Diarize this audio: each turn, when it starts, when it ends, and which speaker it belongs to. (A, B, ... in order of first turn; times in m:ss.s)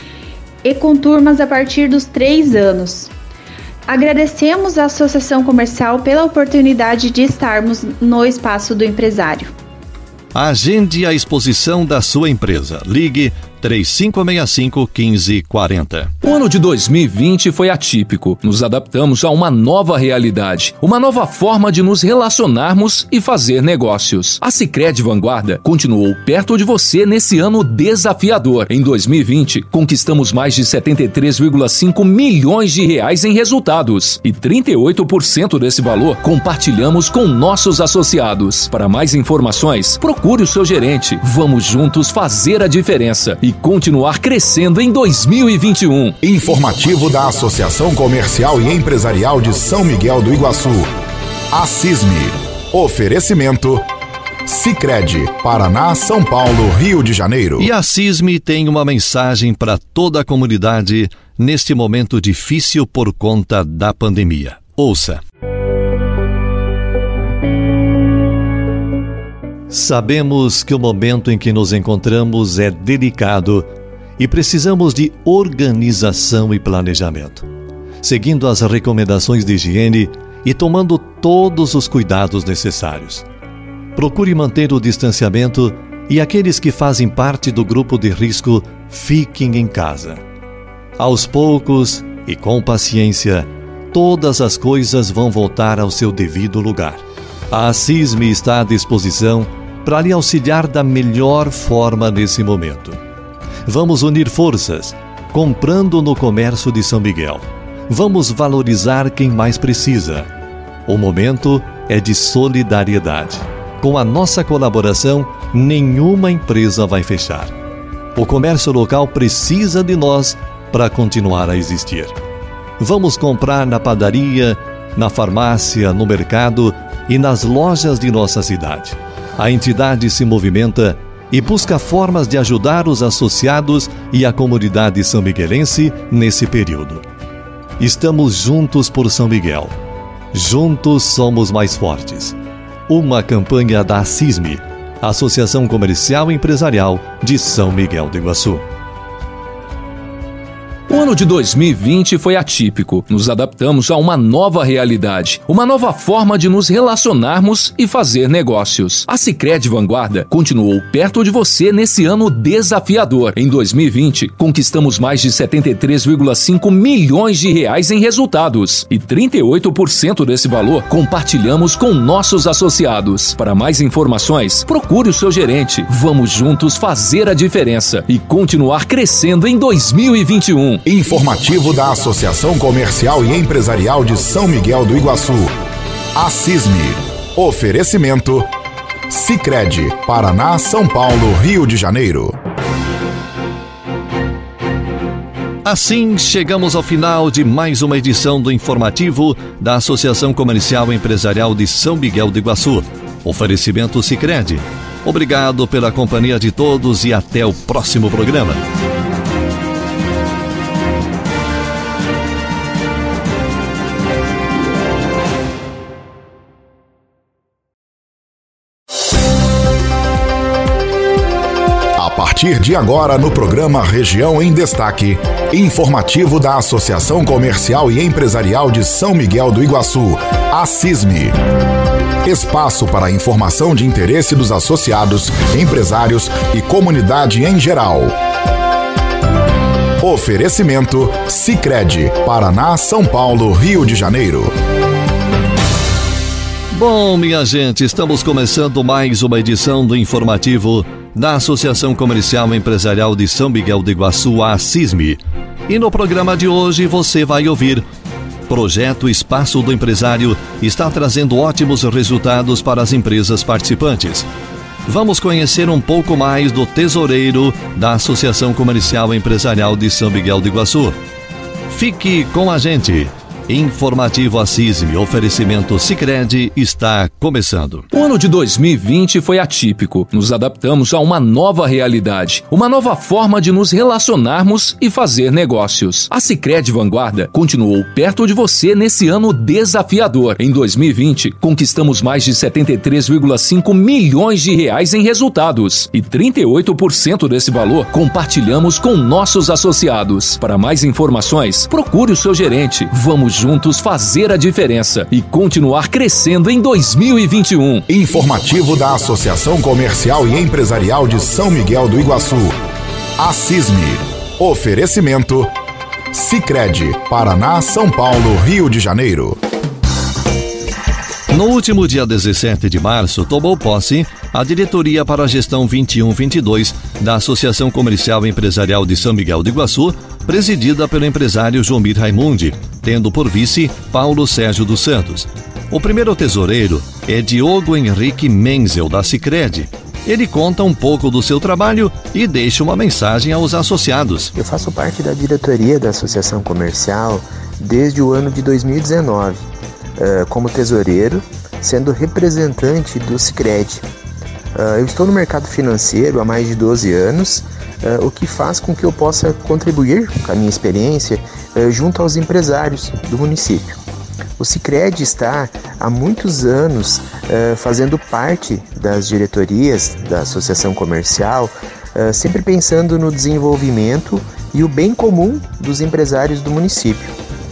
0:00.6-0:03.1 A
0:03.9-0:09.5 A
0:10.3-0:16.1 B
0:16.2-0:46.2 C
0:46.2-0:50.9 D
0:51.5-0:53.8 D
0:54.4-0:57.7 D
0:57.6-1:05.2 B
1:09.7-1:17.4 B
1:18.0-1:23.2 B
1:24.0-1:30.2 B
1:31.0-1:43.0 B
1:43.6-1:50.3 B
1:50.9-1:57.5 B
1:58.1-2:02.1 B
2:02.8-2:17.0 B
2:17.8-2:19.7 B
2:20.3-2:22.4 B
2:22.9-2:28.6 B
2:30.9-3:00.8 C
3:00.8-3:05.5 D
3:06.1-3:08.5 D
3:09.1-3:12.3 D
3:15.6-3:28.6 B
3:42.0-3:51.4 D
3:52.2-3:58.2 D
4:00.0-4:04.5 D
4:06.7-4:17.8 B
4:18.5-4:24.3 B
4:24.9-4:31.0 B
4:31.7-4:37.9 B
4:37.9-5:07.8 C
5:07.9-5:12.6 D
5:13.2-5:15.5 D
5:16.1-5:19.4 D
5:21.3-5:44.3 B
5:44.3-5:49.4 E
5:50.0-5:53.8 E
5:54.6-6:03.8 E
6:04.4-6:17.1 E